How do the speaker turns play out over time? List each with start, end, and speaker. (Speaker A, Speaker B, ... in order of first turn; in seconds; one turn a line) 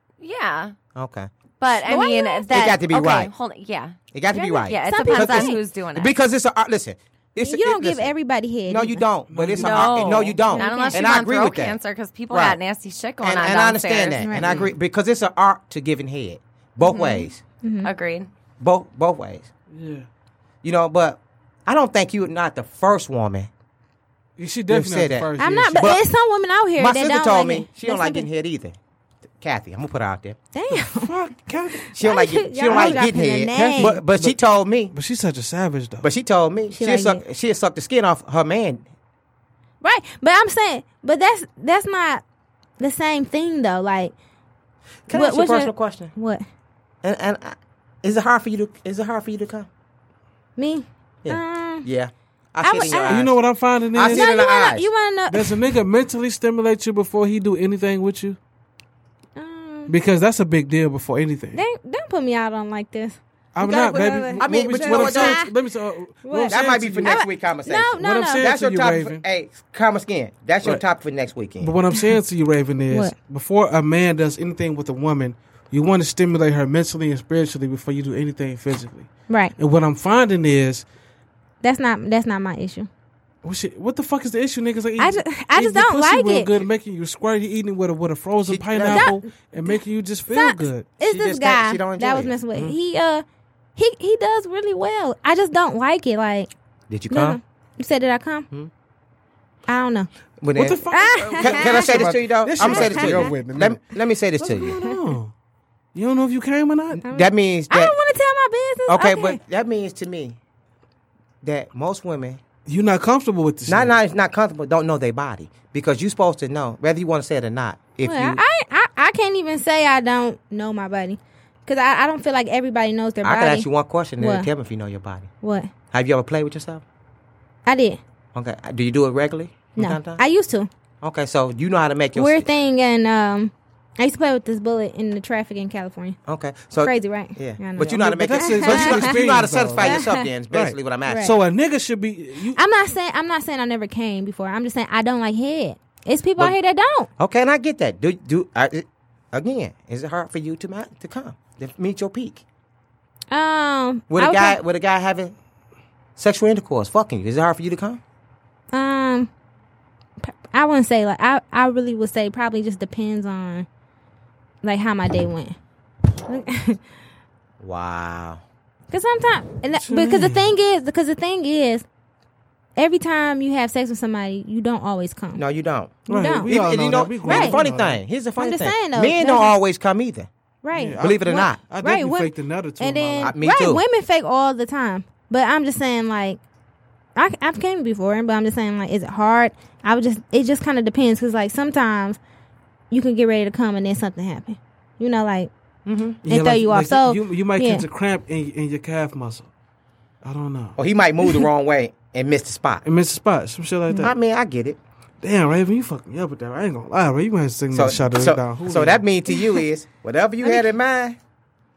Speaker A: 0.2-0.7
Speaker B: 0.9-1.3
Speaker A: 1.6-6.1
Speaker C: 1.8-2.5
Speaker B: 2.5-3.3
Speaker B: 4.1-8.1
Speaker C: 4.8-5.6
Speaker C: 7.4-9.0
Speaker B: 8.7-11.8
Speaker D: 9.3-10.2
Speaker A: 9.6-14.2
Speaker C: 10.5-11.1
Speaker B: 12.3-12.6
Speaker B: 13.2-17.4
Speaker C: 14.2-14.5
Speaker D: 14.4-14.7
Speaker C: 16.8-17.9
Speaker A: 17.8-18.3
Speaker B: 18.6-19.5
Speaker D: 19.7-20.1
Speaker B: 20.6-23.5
Speaker D: 24.4-25.9
Speaker B: 24.7-26.0
Speaker C: 25.4-28.3
Speaker B: 26.8-28.8
Speaker B: 29.4-30.4
Speaker C: 30.5-31.1
Speaker D: 30.7-31.9
Speaker B: 31.9-34.9
Speaker C: 32.0-34.0
Speaker D: 32.6-34.4
Speaker D: 34.9-36.1
Speaker B: 36.0-38.8
Speaker C: 36.7-37.2
Speaker C: 39.8-42.2
Speaker C: 42.8-44.1
Speaker B: 45.1-46.1
Speaker C: 45.1-46.4
Speaker B: 47.0-49.7
Speaker C: 50.6-51.9
Speaker B: 51.2-53.3
Speaker C: 52.6-53.2
Speaker D: 52.8-54.3
Speaker B: 53.9-54.9
Speaker C: 54.0-55.6
Speaker D: 55.3-58.4
Speaker C: 59.4-59.9
Speaker D: 59.9-61.6
Speaker C: 61.5-65.5
Speaker D: 63.5-67.1
Speaker B: 64.4-65.4
Speaker C: 66.2-68.5
Speaker B: 66.5-71.7
Speaker D: 68.0-69.2
Speaker D: 71.6-80.8
Speaker C: 79.3-79.5
Speaker C: 81.6-82.9
Speaker D: 83.4-90.9
Speaker C: 85.0-86.6
Speaker B: 88.5-89.1
Speaker C: 88.9-89.8
Speaker C: 90.3-93.2
Speaker B: 91.0-92.4
Speaker C: 93.8-96.5
Speaker B: 96.9-97.4
Speaker C: 97.1-98.5
Speaker C: 99.7-100.1
Speaker B: 100.4-104.8
Speaker D: 100.5-103.8
Speaker C: 100.9-102.1
Speaker C: 102.6-103.3
Speaker D: 104.4-105.3
Speaker D: 105.9-107.0
Speaker B: 106.9-107.9
Speaker C: 107.0-109.4
Speaker B: 108.9-110.4
Speaker B: 111.4-112.4
Speaker D: 112.7-113.9
Speaker B: 113.7-118.4
Speaker C: 118.0-123.7
Speaker B: 123.2-125.3
Speaker C: 124.2-124.5
Speaker C: 125.4-125.7
Speaker B: 125.9-126.8
Speaker C: 127.7-128.0
Speaker B: 128.3-130.2
Speaker C: 129.8-130.7
Speaker B: 131.0-132.5
Speaker C: 132.1-136.2
Speaker B: 136.2-141.3
Speaker C: 136.8-139.2
Speaker D: 137.9-142.6
Speaker C: 139.8-140.2
Speaker C: 141.1-141.3
Speaker C: 142.5-147.1
Speaker B: 147.2-152.4
Speaker C: 153.3-154.6
Speaker B: 154.1-155.3
Speaker B: 156.2-158.0
Speaker C: 158.7-159.3
Speaker C: 160.2-163.7
Speaker C: 164.6-165.6
Speaker C: 166.2-166.8
Speaker B: 167.6-168.4
Speaker C: 168.9-171.8
Speaker D: 169.8-170.5
Speaker C: 172.8-175.4
Speaker B: 175.3-180.3
Speaker D: 176.1-178.0
Speaker C: 176.1-176.5
Speaker C: 177.2-177.6
Speaker C: 178.4-179.6
Speaker C: 180.6-186.4
Speaker D: 180.8-183.3
Speaker B: 181.0-181.6
Speaker B: 183.2-183.8
Speaker C: 187.2-192.2
Speaker C: 192.9-195.5
Speaker B: 195.8-196.2
Speaker D: 196.2-199.5
Speaker C: 196.3-197.8
Speaker D: 200.2-200.8
Speaker B: 200.8-202.8
Speaker D: 202.8-204.1
Speaker B: 203.9-204.8
Speaker D: 205.2-209.0
Speaker B: 207.7-211.2
Speaker C: 209.3-209.6